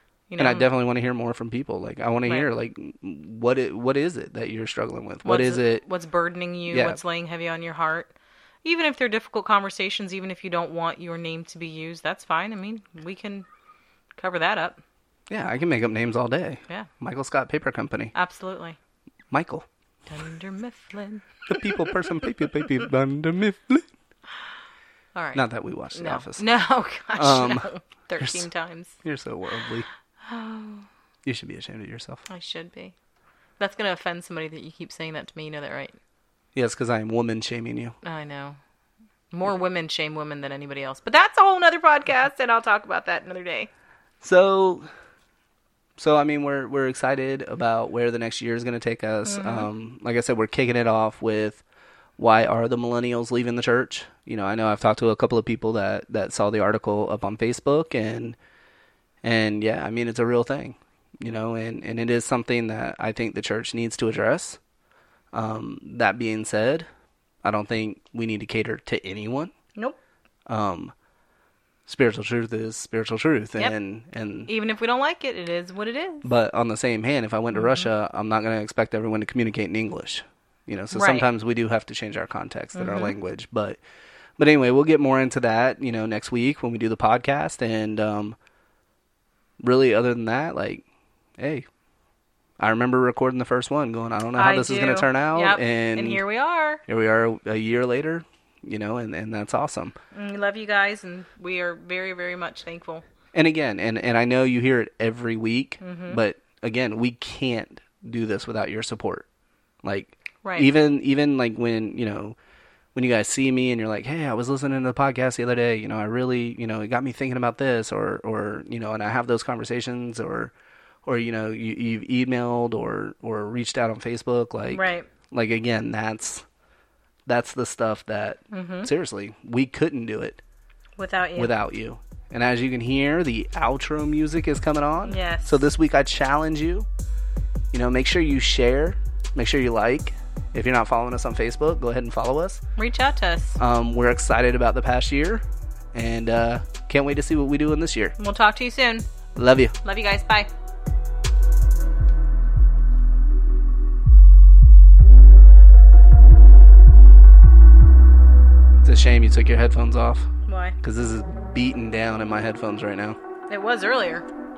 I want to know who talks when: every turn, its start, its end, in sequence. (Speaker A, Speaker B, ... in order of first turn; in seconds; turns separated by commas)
Speaker A: 0.3-0.7, Speaker B: 0.4-5.8, Speaker A: 5.2-13.5, Speaker B: 6.7-7.0, Speaker A: 14.2-14.8, Speaker B: 15.3-18.1, Speaker A: 18.1-18.8, Speaker B: 19.3-19.7, Speaker A: 20.1-22.9, Speaker B: 21.5-23.9, Speaker A: 25.1-29.0, Speaker B: 25.3-26.4, Speaker B: 27.1-28.4, Speaker B: 29.0-29.9, Speaker A: 30.2-30.9, Speaker B: 31.2-32.2, Speaker A: 32.3-32.9, Speaker A: 33.6-35.9, Speaker B: 36.5-38.0, Speaker A: 38.0-38.6, Speaker A: 39.3-43.7, Speaker B: 44.2-44.9, Speaker B: 46.0-51.6, Speaker A: 49.2-49.7, Speaker B: 52.2-58.4, Speaker B: 59.2-64.6, Speaker B: 65.3-66.9, Speaker B: 67.4-69.5, Speaker B: 70.5-70.9, Speaker B: 71.8-74.5, Speaker A: 74.5-76.3, Speaker B: 76.2-83.8, Speaker A: 77.5-77.9, Speaker A: 80.9-81.3, Speaker A: 82.7-83.1, Speaker B: 84.4-88.3, Speaker B: 89.6-90.8, Speaker B: 91.4-91.7, Speaker B: 92.6-96.2, Speaker A: 94.3-96.8, Speaker B: 96.8-99.9, Speaker A: 100.1-103.0, Speaker B: 103.3-109.2, Speaker A: 105.8-106.2, Speaker B: 109.8-112.3, Speaker A: 110.4-110.7, Speaker B: 112.9-120.5, Speaker B: 121.0-126.4, Speaker A: 124.7-125.1, Speaker B: 127.3-130.4, Speaker A: 128.5-128.9, Speaker A: 131.0-131.5, Speaker B: 131.3-136.9, Speaker A: 135.0-135.6, Speaker B: 137.7-142.6, Speaker A: 142.8-143.6, Speaker B: 143.6-148.1, Speaker A: 148.2-149.1, Speaker B: 149.3-149.7, Speaker A: 149.8-150.5, Speaker B: 158.8-160.3, Speaker A: 160.4-160.8, Speaker B: 160.8-163.2, Speaker A: 163.5-164.3